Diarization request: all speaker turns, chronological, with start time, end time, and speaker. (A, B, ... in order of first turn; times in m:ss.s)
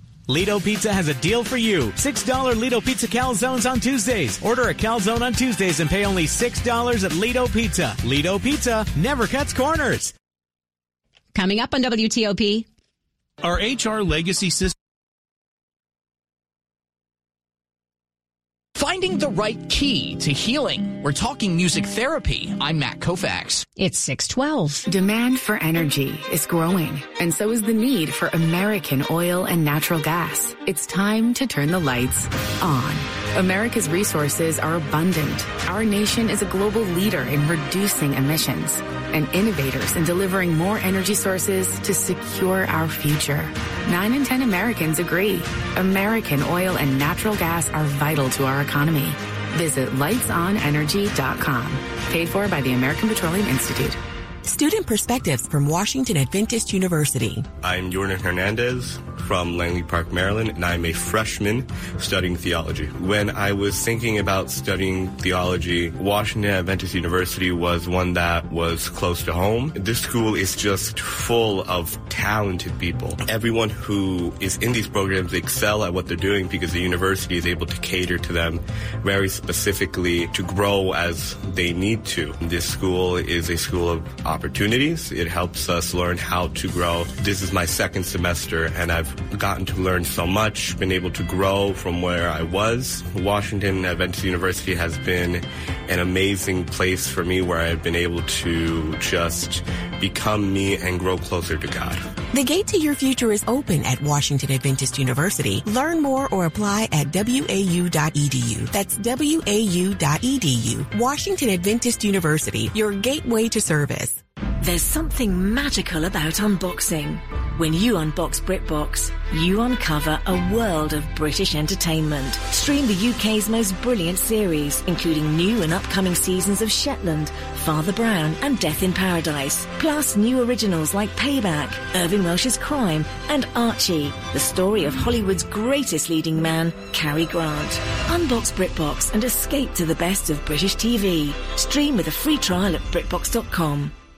0:00.3-0:10.1 A
0:11.3-0:12.6 B
0:13.4-0:14.7 A
0:18.8-0:23.6 C
0:23.8-0:24.8 B
0:24.9-0:54.0 D
0:54.5-0:57.4 E
0:57.6-1:42.0 F
1:42.3-1:54.1 E
1:54.6-2:23.9 G